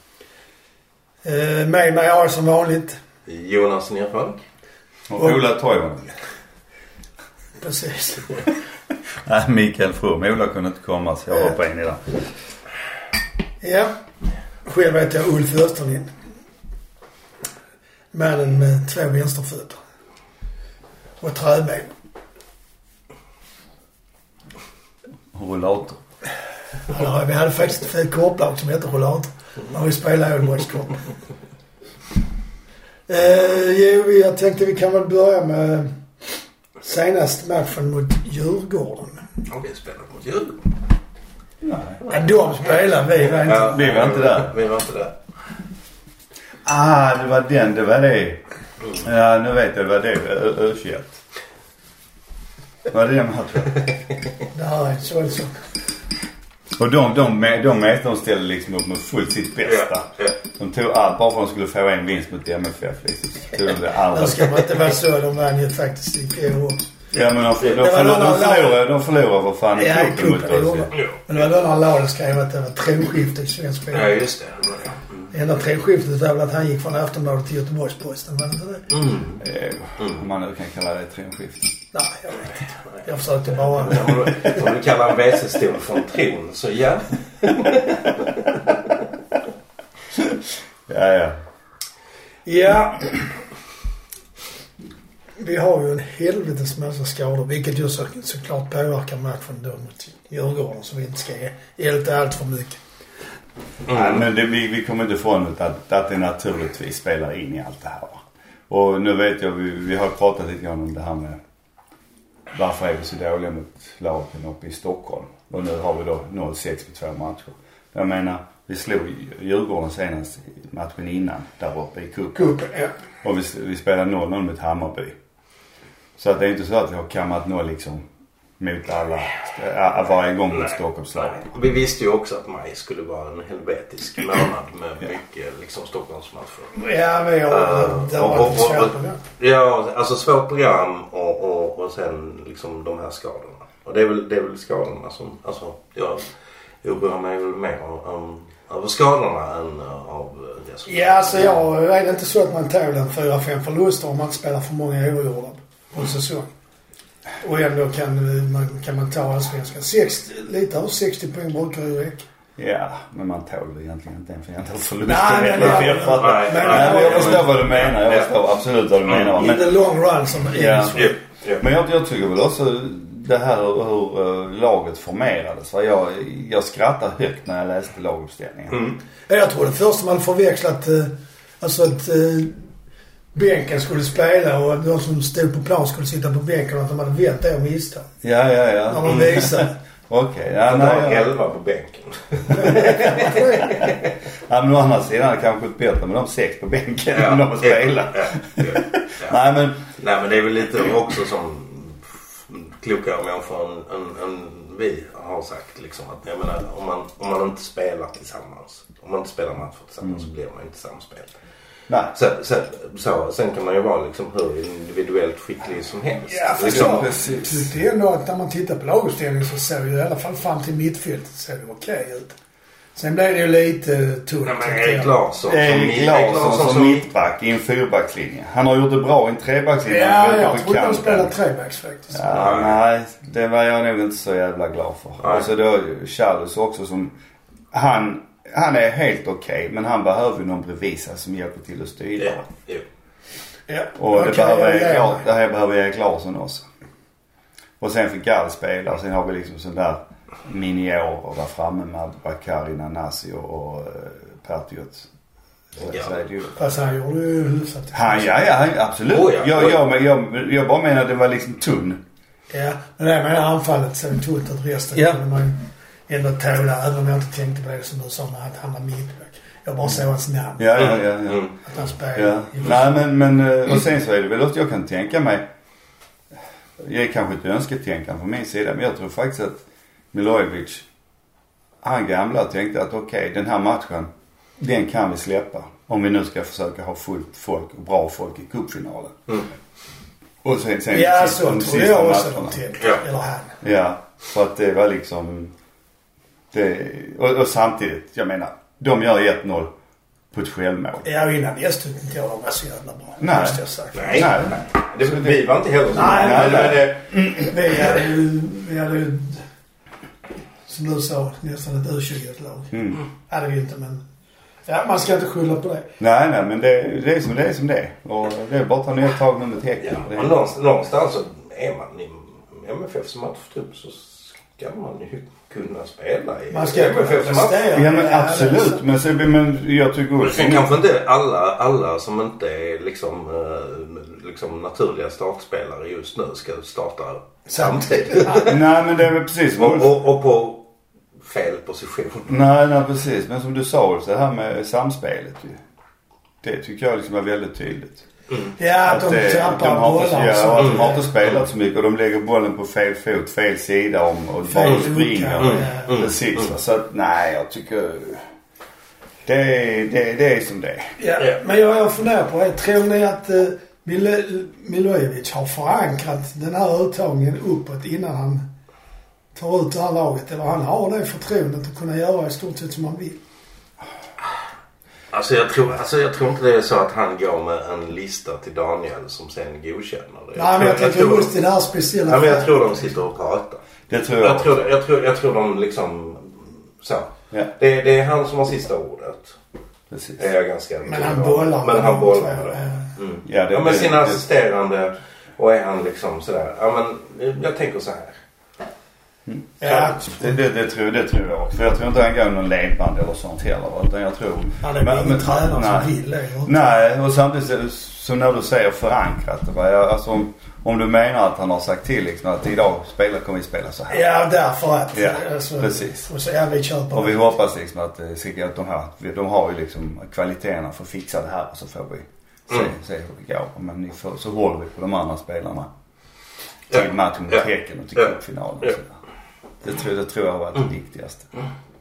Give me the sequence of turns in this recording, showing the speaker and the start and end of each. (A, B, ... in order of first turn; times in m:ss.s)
0:01.2-0:03.0 A
0:03.2-0:04.4 B
0:05.1-0:06.1 C
0:07.6-0:08.5 A
0:09.2-0:12.2 C
0:13.6-0:13.9 A
0:14.6-0:16.1 A
0:18.1-0:19.8 A
0:21.2-0:21.9 A
0:25.3-0:26.0 C
0:26.9-0:31.0 A
0:33.1-0:36.0 A
0:36.8-0:39.2 A
0:39.5-0:40.6 B
0:41.6-0:42.0 C
0:42.0-0:43.8 A
0:43.3-0:45.2 B
0:43.5-0:44.6 C
0:46.6-0:51.2 C
0:52.9-0:53.8 C
0:54.5-0:55.6 A
0:56.8-1:04.6 C
0:59.7-1:00.3 B
1:04.1-1:06.9 A
1:07.1-1:10.9 C
1:07.7-1:08.8 A
1:09.8-1:14.3 A
1:13.9-1:15.1 B
1:15.3-1:18.9 A
1:18.9-1:19.4 B
1:19.4-1:21.7 C
1:21.9-1:24.4 A
1:23.8-1:28.5 B
1:30.9-1:31.4 C
1:32.4-1:33.3 A
1:35.4-1:42.8 A
1:43.9-1:44.2 B
1:43.9-1:51.4 C
1:52.5-2:02.6 C
2:02.3-2:02.9 A
2:03.2-2:05.2 C
2:06.2-2:08.0 C
2:08.6-2:11.6 C
2:11.2-2:16.7 B
2:16.7-2:19.2 A
2:17.5-2:26.2 B
2:26.8-2:31.5 B
2:30.8-2:36.5 A
2:37.4-2:42.2 A
2:42.6-2:49.8 C
2:45.0-2:47.5 A
2:45.5-2:48.3 B
2:49.1-2:49.4 B
2:49.4-2:51.1 A
2:50.5-2:58.8 C
2:51.0-2:51.6 B
2:58.7-2:59.0 B
2:59.3-3:02.6 A
3:03.3-3:08.1 A
3:08.2-3:11.3 C
3:08.9-3:09.7 A
3:10.7-3:14.0 B
3:12.5-3:13.9 A
3:14.5-3:19.9 C
3:17.1-3:19.4 B
3:20.0-3:31.3 B
3:31.9-3:32.1 C
3:32.1-3:37.1 B
3:36.3-3:42.3 A
3:36.6-3:37.7 C
3:43.0-3:45.2 A
3:44.4-3:47.0 B
3:45.5-3:51.3 C
3:49.8-3:52.6 A
3:52.1-3:57.1 C
3:52.3-3:52.8 B
3:55.2-3:55.5 B
3:57.7-4:02.5 C
4:02.2-4:02.8 B
4:03.7-4:05.2 A
4:04.0-4:06.6 C
4:07.8-4:15.1 C
4:15.8-4:16.6 C
4:15.8-4:16.2 B
4:16.6-4:18.4 A
4:17.9-4:22.0 C
4:19.1-4:19.8 B
4:22.5-4:30.9 A
4:30.6-4:31.5 C
4:30.8-4:31.5 B
4:31.6-4:33.0 A
4:32.1-4:35.4 C
4:36.8-4:39.6 C
4:40.1-4:40.8 C
4:41.8-4:49.3 C
4:50.4-4:52.6 C
4:50.9-4:53.6 A
4:53.6-4:55.5 C
4:56.5-4:59.7 C
5:00.3-5:01.0 C
5:01.0-5:04.3 A
5:03.2-5:05.4 C
5:03.9-5:07.0 B
5:05.9-5:09.4 A
5:06.0-5:07.2 C
5:10.7-5:12.8 A
5:12.7-5:13.0 C
5:13.3-5:14.0 A
5:14.7-5:15.9 A
5:16.0-5:20.4 C
5:19.8-5:27.8 B
5:26.5-5:28.8 A
5:27.7-5:30.7 C
5:30.2-5:38.6 B
5:37.5-5:38.5 A
5:38.4-5:40.0 C
5:39.6-5:40.7 B
5:41.2-5:42.3 B
5:42.3-5:45.6 C
5:46.4-5:48.0 C
5:48.6-5:51.1 A
5:48.8-5:58.2 C
5:54.5-5:55.9 A
5:54.6-5:56.5 B
5:59.2-6:00.9 C
6:01.0-6:08.4 A
6:09.3-6:13.2 A
6:15.1-6:21.3 B
6:20.4-6:22.5 A
6:22.1-6:23.6 B
6:23.9-6:24.7 C
6:24.2-6:29.4 B
6:29.9-6:30.2 C
6:30.2-6:38.2 B
6:30.8-6:32.9 A
6:33.2-6:34.2 C
6:39.2-6:45.9 C
6:39.6-6:40.2 A
6:39.7-6:39.9 B
6:44.6-6:46.8 A
6:46.4-6:54.0 C
6:53.9-6:57.3 A
6:54.9-6:56.0 C
6:56.9-7:05.7 C
7:06.7-7:09.0 C
7:06.7-7:07.4 B
7:09.6-7:11.3 C